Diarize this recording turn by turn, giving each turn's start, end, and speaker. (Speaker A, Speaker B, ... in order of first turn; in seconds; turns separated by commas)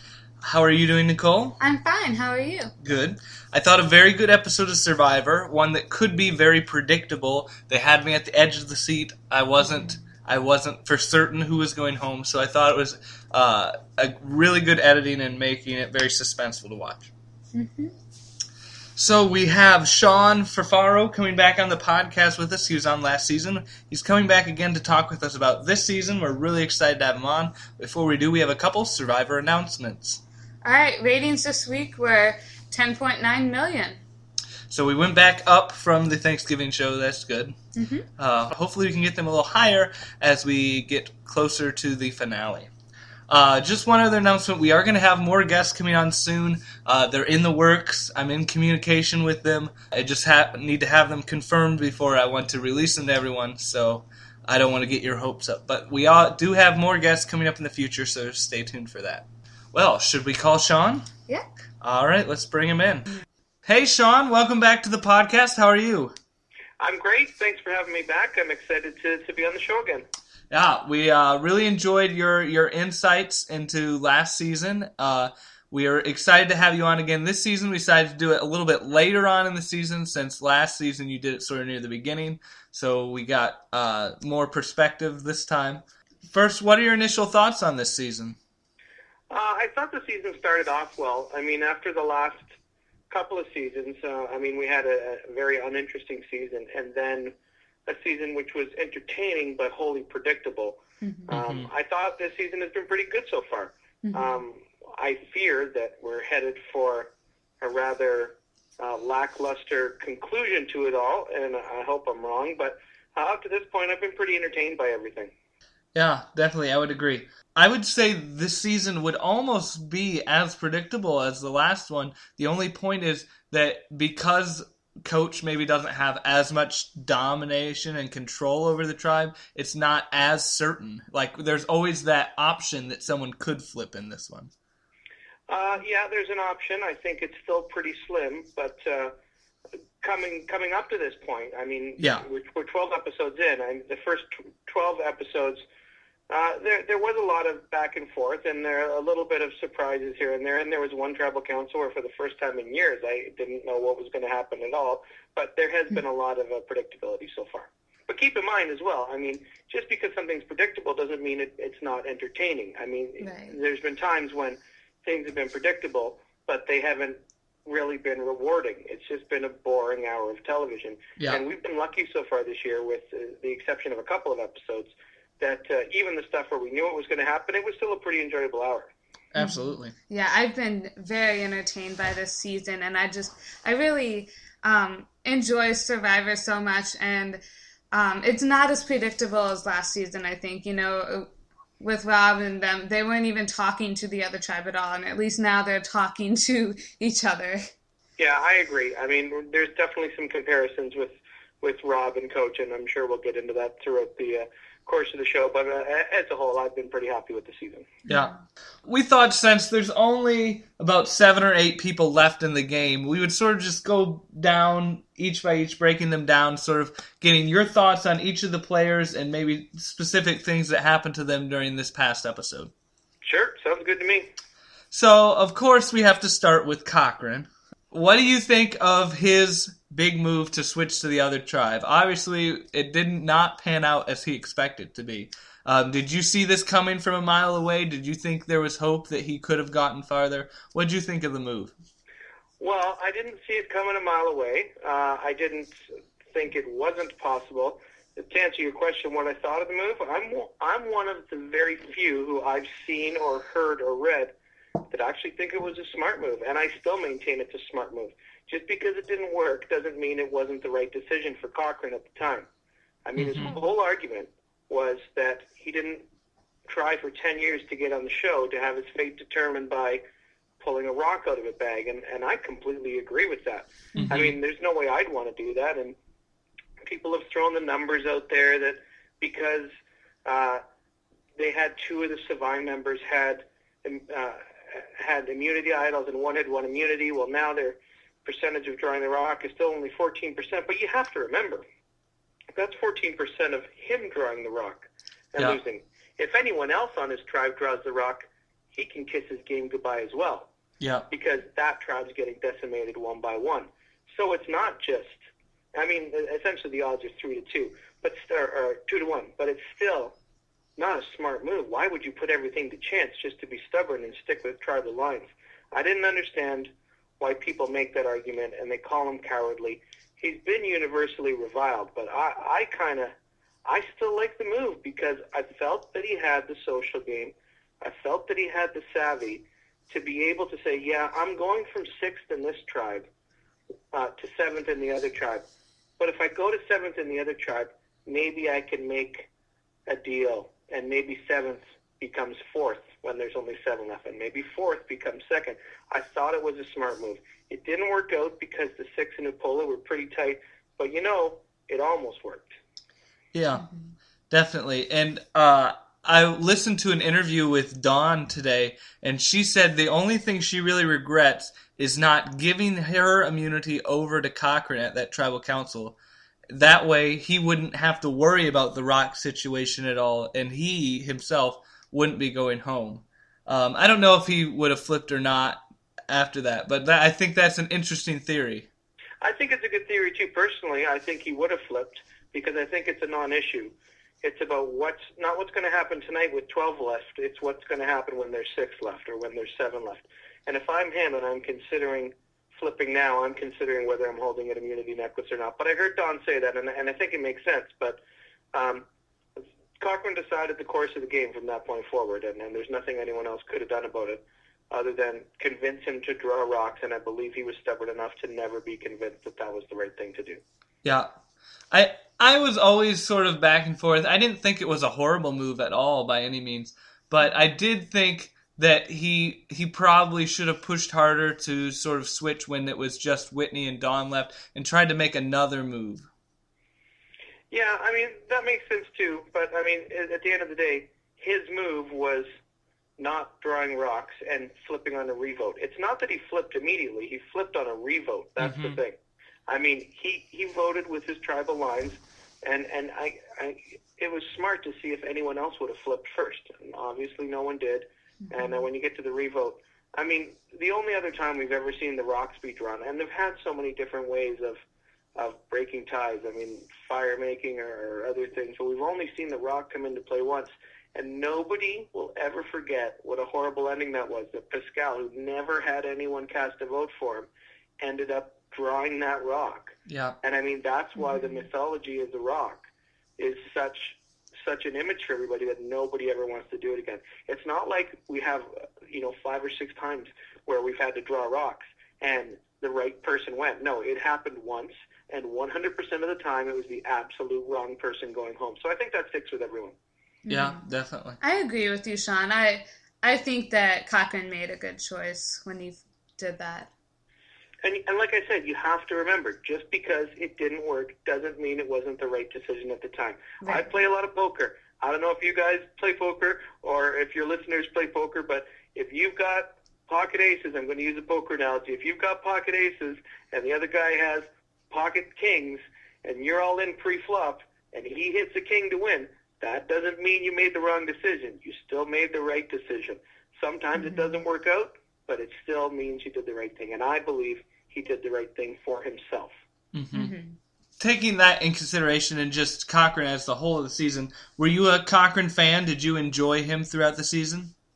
Speaker A: 0.4-1.6, Speaker B: 1.6-2.7, Speaker A: 2.8-17.1, Speaker B: 17.5-17.9, Speaker A: 19.0-30.2, Speaker B: 30.6-34.0, Speaker A: 34.7-37.5, Speaker B: 37.8-38.0, Speaker A: 38.2-42.7, Speaker A: 43.3-61.1, Speaker A: 61.8-63.1, Speaker A: 63.6-66.1, Speaker C: 66.8-70.0, Speaker A: 70.5-88.4, Speaker C: 89.3-92.5, Speaker C: 93.1-97.3, Speaker C: 97.9-107.1, Speaker B: 101.0-101.3, Speaker A: 101.3-101.7, Speaker B: 104.0-104.3, Speaker C: 107.6-115.3, Speaker A: 115.9-134.5, Speaker C: 135.5-139.1, Speaker C: 140.0-145.6, Speaker A: 142.0-142.2, Speaker C: 146.3-178.9, Speaker B: 163.2-163.6, Speaker A: 179.3-179.9, Speaker B: 179.4-187.4, Speaker B: 187.9-191.3, Speaker B: 191.8-197.7, Speaker C: 198.2-207.9, Speaker B: 208.1-208.3, Speaker A: 208.1-208.3, Speaker A: 208.8-222.7, Speaker C: 223.2-224.3, Speaker A: 224.9-241.7, Speaker C: 242.6-245.7, Speaker C: 246.3-254.3, Speaker C: 254.9-262.5, Speaker C: 263.1-266.0, Speaker A: 263.2-263.5, Speaker C: 266.7-270.0, Speaker C: 270.6-275.9, Speaker A: 273.9-274.4, Speaker C: 276.8-279.7, Speaker C: 280.2-280.6, Speaker C: 281.4-291.6, Speaker C: 292.6-300.5, Speaker A: 300.8-301.1, Speaker C: 301.1-305.2, Speaker C: 305.7-310.1, Speaker C: 310.8-323.1, Speaker C: 323.6-333.1, Speaker C: 333.9-335.4, Speaker C: 336.0-339.3, Speaker C: 339.9-352.5, Speaker A: 353.3-353.6, Speaker B: 353.6-353.9, Speaker A: 354.3-365.9, Speaker A: 366.5-378.7, Speaker C: 379.2-398.0, Speaker C: 398.5-398.8, Speaker C: 399.4-410.4, Speaker A: 410.8-411.1, Speaker A: 411.7-426.1, Speaker C: 427.5-432.3, Speaker C: 433.0-439.0, Speaker A: 438.4-438.8, Speaker C: 439.5-454.6, Speaker B: 448.2-448.6, Speaker C: 455.1-467.3, Speaker C: 467.8-472.6, Speaker A: 469.9-470.2, Speaker B: 471.0-471.4, Speaker C: 473.2-489.7, Speaker B: 490.2-490.6, Speaker A: 490.3-491.2, Speaker B: 491.2-496.7, Speaker C: 497.6-529.3, Speaker B: 503.4-503.7, Speaker B: 523.8-524.2, Speaker A: 529.7-530.1, Speaker B: 529.9-530.4, Speaker A: 530.8-537.5